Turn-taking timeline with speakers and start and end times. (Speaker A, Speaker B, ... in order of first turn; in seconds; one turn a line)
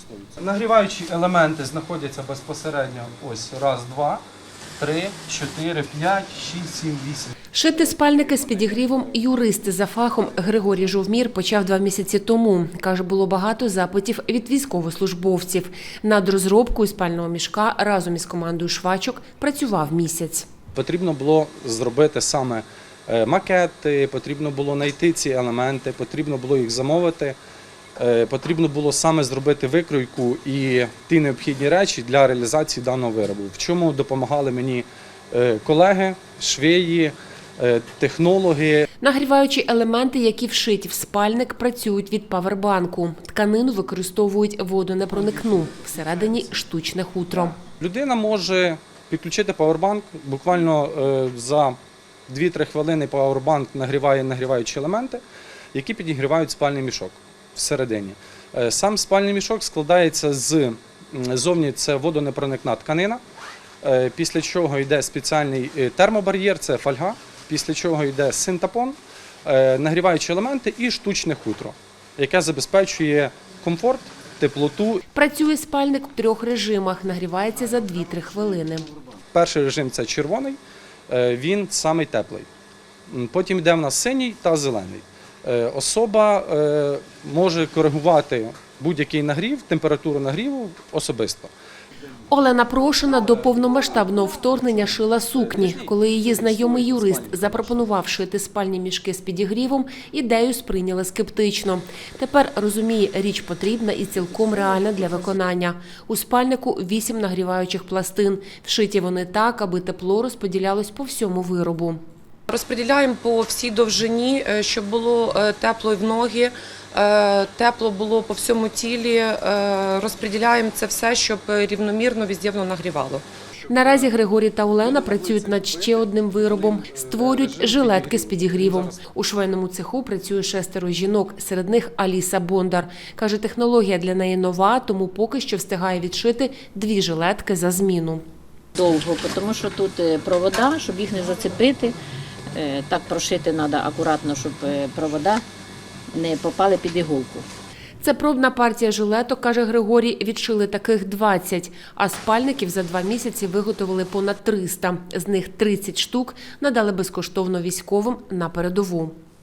Speaker A: 0.3-4.2
Speaker A: 4.8-7.3
Speaker B: 7.5-20.5
Speaker A: 20.8-27.4
Speaker A: 28.0-38.9
Speaker B: 39.0-47.6
Speaker A: 47.8-51.8
Speaker A: 52.3-55.2
Speaker A: 55.7-63.2
Speaker A: 63.8-75.0
Speaker B: 75.2-78.9
Speaker A: 79.3-80.6
Speaker A: 81.1-82.5
Speaker A: 83.1-91.5
Speaker B: 92.3-112.0
Speaker C: 112.5-123.2
Speaker B: 123.7-138.2
Speaker A: 124.8-129.0
Speaker D: 138.8-142.0
Speaker D: 142.5-145.4
Speaker D: 146.1-147.4
Speaker B: 148.0-159.2